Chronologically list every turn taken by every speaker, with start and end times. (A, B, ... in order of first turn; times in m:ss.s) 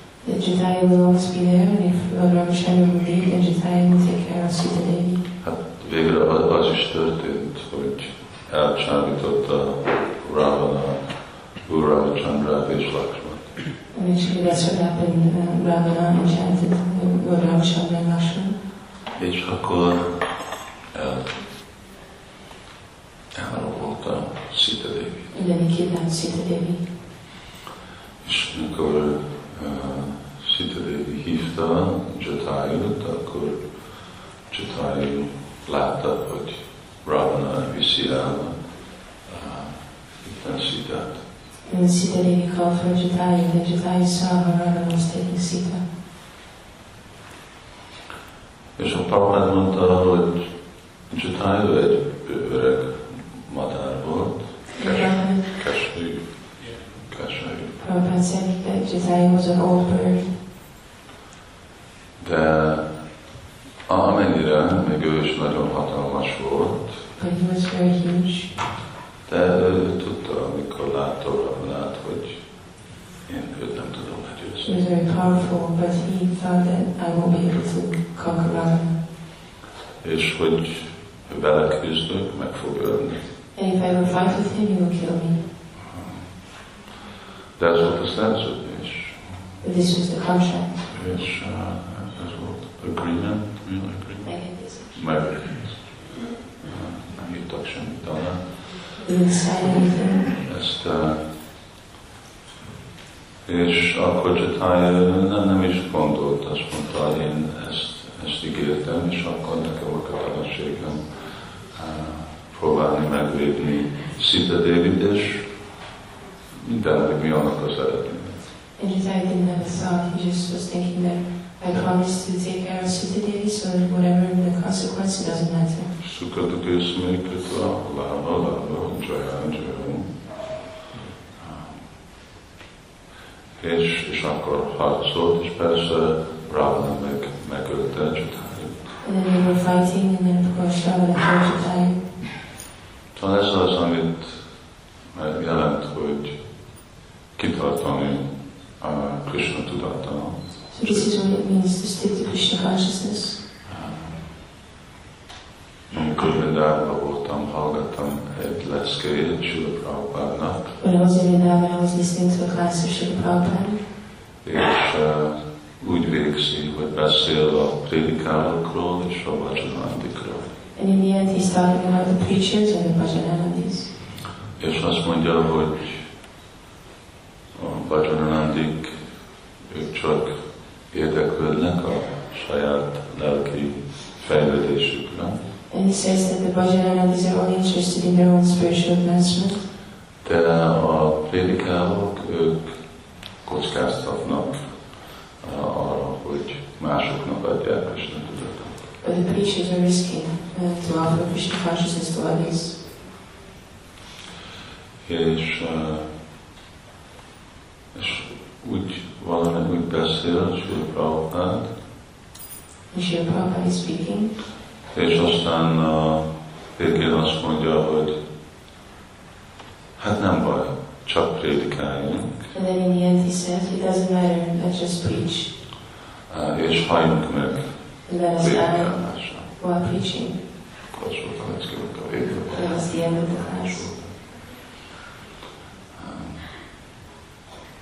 0:00.2-0:05.2 A
0:05.4-0:11.0 B
0:11.6-0:13.5 B
0:13.9-0:18.6 A
0:19.2-0:20.2 B
0:20.9-0:21.3 B
0:23.4-0:25.3 B
0:25.3-0:26.8 A
0:28.2-0:33.6 B
0:34.5-0:38.6 B
0:39.3-0:41.2 B
0:41.7-0:45.8 A
0:48.8-0:50.5 B
0:51.1-0:56.3 B
0:54.8-0:55.5 A
0:57.0-0:57.8 B
0:57.8-1:00.4 A
1:02.2-1:02.8 B
1:03.9-1:07.0 B
1:07.2-1:08.6 A
1:09.3-1:12.4 B
1:13.3-1:14.8 B
1:14.6-1:19.0 A
1:20.0-1:23.3 B
1:23.6-1:25.4 A
1:25.9-1:26.2 B
1:27.6-1:29.4 B
1:29.6-1:30.8 A
1:30.9-1:34.3 B
1:34.2-1:34.9 A
1:34.9-1:35.8 B
1:36.6-1:38.4 B
1:39.0-1:40.3 A
1:40.4-1:41.2 B
1:43.5-1:51.0 B
1:51.7-1:55.5 B
1:56.6-1:58.4 B
1:58.8-2:05.9 A
2:06.0-2:10.1 B
2:11.4-2:11.8 B
2:13.6-2:18.8 B
2:19.0-2:22.0 A
2:23.1-2:24.4 B
2:25.1-2:26.4 B
2:27.4-2:31.1 B
2:30.7-2:33.4 A
2:33.7-2:34.2 B
2:35.9-2:40.8 B
2:40.8-2:43.8 A
2:44.4-2:50.5 B
2:50.8-2:53.9 A
2:54.6-2:56.1 B
2:57.6-2:59.0 B
2:59.7-3:00.3 B
3:00.9-3:05.4 B
3:05.7-3:09.6 A
3:10.2-3:12.7 B
3:13.4-3:14.7 B
3:15.4-3:18.8 B
3:19.0-3:22.8 A
3:25.0-3:26.1 B
3:27.9-3:31.7 B
3:32.9-3:34.4 A
3:34.9-3:38.2 B
3:40.0-3:42.5 B
3:42.5-3:45.5 A
3:46.3-3:47.7 B
3:48.1-3:50.4 A
3:48.4-3:49.5 B
3:50.9-3:54.2 B
3:52.5-3:53.8 A
3:56.0-3:56.4 B